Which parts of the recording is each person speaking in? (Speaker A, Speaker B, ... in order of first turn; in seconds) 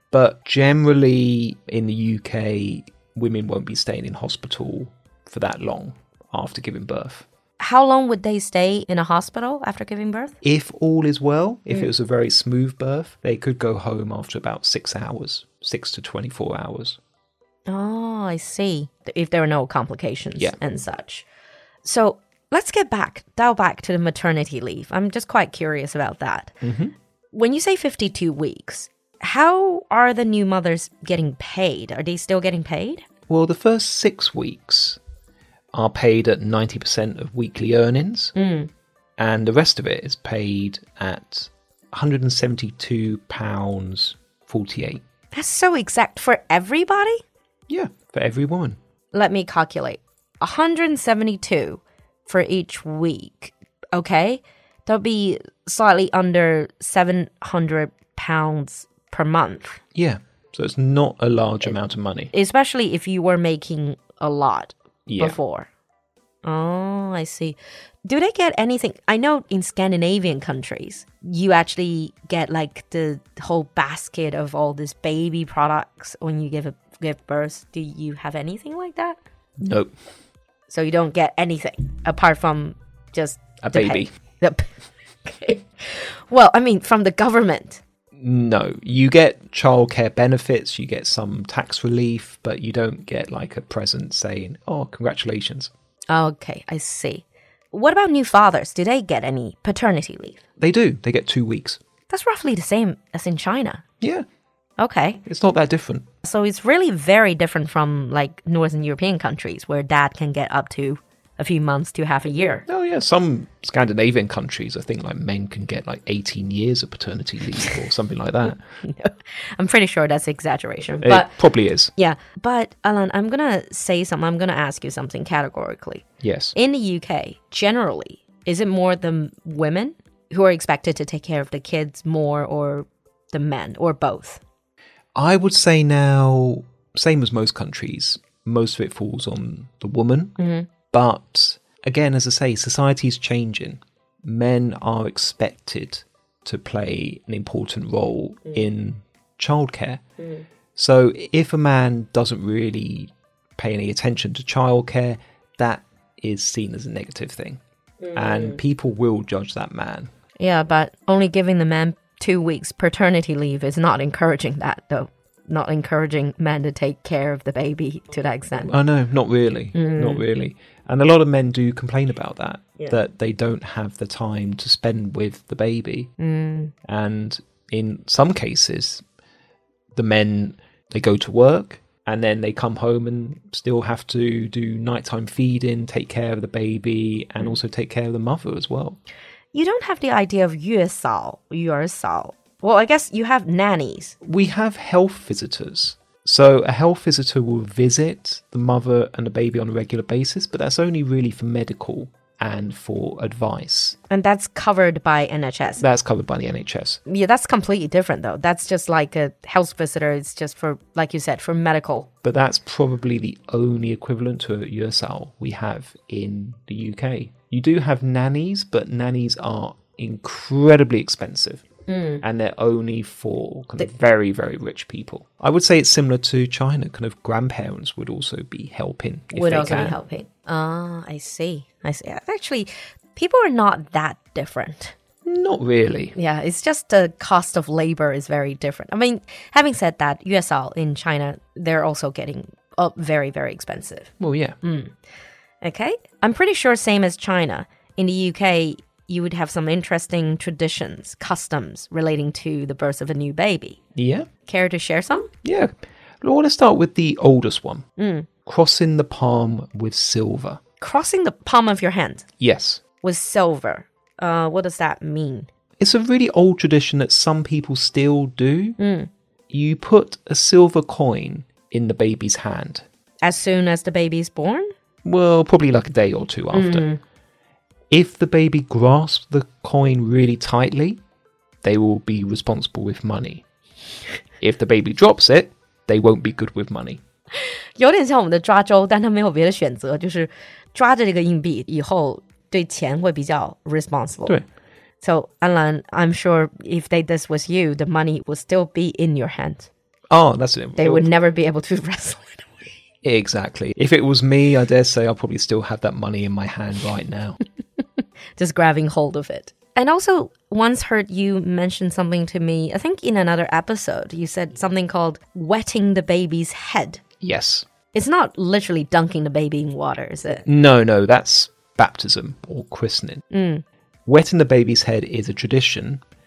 Speaker A: 0.1-7.3, 10.4-17.0, 26.6-26.9, 33.3-35.0, 35.7-38.4, 39.2-45.0, 47.7-48.8, 60.0-62.3, 65.1-65.4, 79.6-79.9, 83.6-84.1, 88.2-95.7, 100.6-101.8, 105.2-106.1, 112.7-118.6, 121.0-121.9, 126.2-126.6, 135.2-140.4, 140.9-150.0, 150.8-157.6, 158.1-160.1, 168.7-176.1, 176.9-179.0, 179.9-189.0, 194.2-204.0, 205.8-207.0, 212.2-221.7, 222.2-230.0, 235.2-236.2, 244.2-244.6, 254.0-254.3, 255.4-257.9, 258.5-260.6, 262.4-262.8, 265.8-268.8, 269.5-272.9, 275.0-276.9, 277.9-281.0, 281.6-283.4, 284.4-287.0, 300.1-301.1, 303.0-307.4, 317.2-317.7, 320.5-323.2, 324.1-326.0
Speaker B: 7.6-10.4, 17.7-21.3, 21.8-26.6, 27.3-33.0, 38.4-38.7, 45.3-47.2, 49.1-59.8, 62.3-65.7, 66.4-79.2, 80.7-84.7, 85.2-87.8, 96.1-100.4, 102.1-103.8, 104.8-105.2, 106.2-112.7, 118.8-121.3, 122.0-134.4, 140.4-140.7, 150.2-150.4, 158.0-158.6, 160.4-168.8, 169.7-170.2, 176.2-176.7, 189.5-194.2, 204.1-205.8, 207.1-212.1, 221.9-222.2, 229.3-234.9, 236.2-244.9, 245.6-253.8, 254.5-255.3, 258.0-258.3, 260.8-262.3, 263.0-265.5, 268.8-269.1, 273.2-274.7, 276.5-277.0, 287.8-294.4, 295.0-299.7, 300.8-302.7, 308.4-317.0, 317.9-320.5, 323.3-323.6